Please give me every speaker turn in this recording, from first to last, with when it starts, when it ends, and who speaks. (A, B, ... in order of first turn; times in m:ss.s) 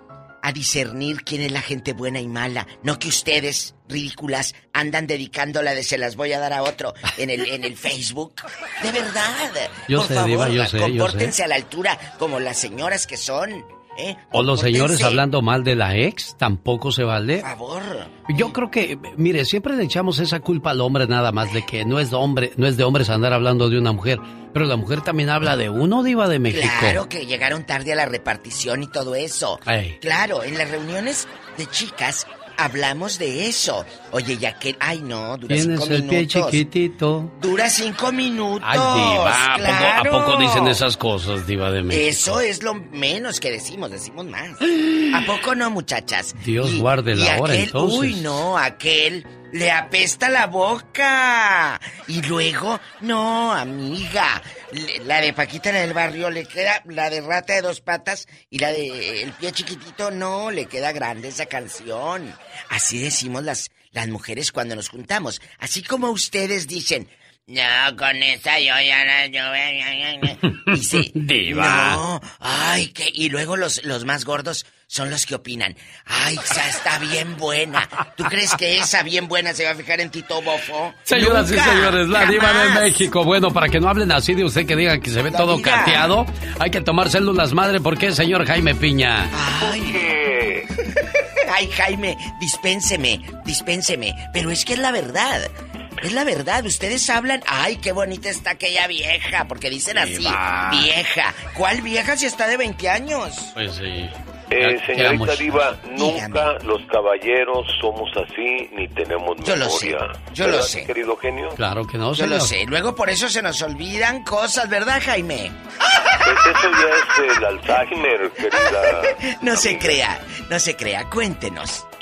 0:00.4-0:15.2 A
0:09.9-0:11.3 B
0:14.3-0:17.5 B
0:17.4-0:18.5 A
0:18.3-0:27.0 B
0:26.5-0:36.6 A
0:29.6-0:30.0 B
0:35.5-0:37.3 B
0:37.4-0:40.8 A
0:38.6-0:42.4 B
0:41.9-0:44.6 A
0:45.1-1:23.0 A
0:46.4-0:48.4 B
1:10.5-1:12.0 B
1:21.1-1:29.3 B
1:25.3-1:26.2 A
1:29.3-1:30.1 A
1:29.6-1:30.7 C
1:31.5-1:35.5 A
1:36.0-1:43.5 A
1:39.9-1:40.9 B
1:43.6-1:45.7 B
1:44.5-1:51.6 C
1:45.9-1:46.5 A
1:49.4-1:50.9 A
1:51.6-1:52.5 B
1:52.1-1:55.6 A
1:56.2-1:59.9 C
1:58.5-2:01.8 A